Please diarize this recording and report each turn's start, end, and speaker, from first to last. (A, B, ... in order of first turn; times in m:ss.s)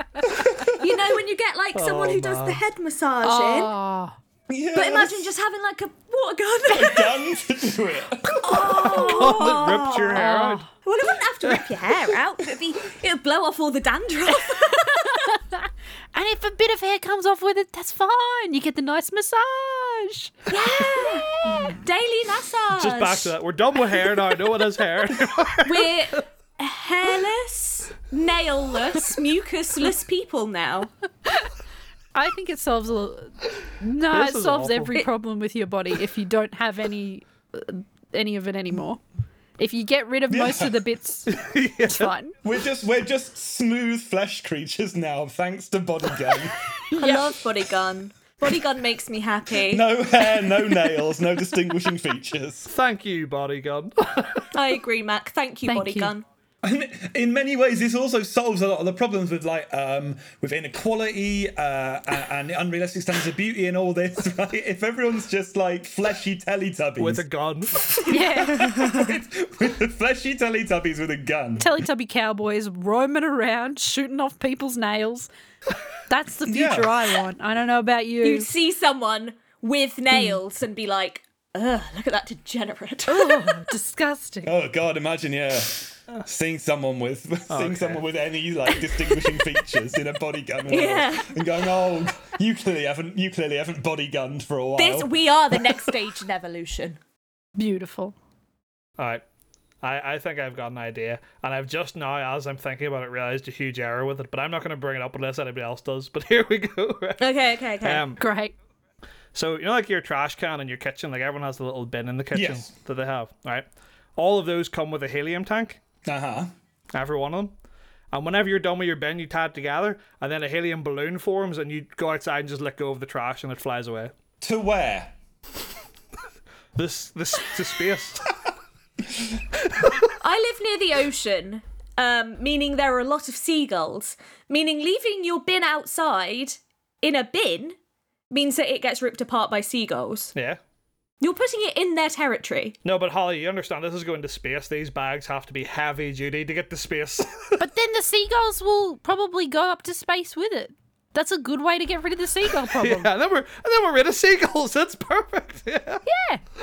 0:00.4-0:00.8 A
0:00.6-0:03.7 B
0:01.7-0:02.6 C
0:03.2-0:04.2 D
0:04.5-0:05.3 A
0:04.7-0:07.2 B
0:06.7-0:08.6 A
0:08.4-0:15.3 B
0:08.6-0:09.4 D
0:08.8-0:10.7 C
0:10.1-0:10.7 D
0:15.1-0:21.8 D
0:20.5-0:23.3 B
0:22.7-0:26.0 C
0:25.6-0:30.9 B
0:32.2-0:39.0 D
0:34.1-0:35.0 C
0:39.6-0:41.4 D
0:40.3-0:40.8 A
0:41.3-0:42.1 C
0:41.9-0:42.4 D
0:42.4-0:46.6 A
0:46.9-0:47.3 D
0:47.0-0:49.9 B
0:49.6-0:52.7 A
0:52.7-0:54.5 C
0:54.5-0:56.2 B
0:55.7-0:56.1 D
0:56.6-1:07.2 A
1:07.0-1:07.8 C
1:08.0-1:09.1 B
1:08.1-1:11.8 A
1:08.1-1:08.8 D
1:11.6-1:15.3 D
1:16.1-1:18.5 D
1:16.5-1:17.0 A
1:18.2-1:23.6 B
1:20.1-1:20.4 D
1:23.1-1:24.5 D
1:24.4-1:35.6 A
1:27.5-1:28.0 C
1:30.7-1:31.4 B
1:34.8-1:37.0 B
1:37.6-1:38.2 D
1:39.0-1:39.2 C
1:39.8-1:48.2 C
1:47.2-1:48.1 B
1:48.2-1:48.5 D
1:49.3-1:53.6 C
1:52.3-1:52.7 A
1:54.2-1:55.8 C
1:56.0-1:56.5 A
1:56.9-1:57.5 C
1:58.1-2:04.1 C
2:04.4-2:05.1 A
2:06.8-2:08.3 C
2:09.7-2:10.0 C
2:10.2-2:17.8 B
2:18.3-2:20.3 B
2:21.2-2:22.8 B
2:22.8-2:27.6 C
2:27.6-2:33.1 D
2:32.8-2:36.0 C
2:36.0-2:36.4 D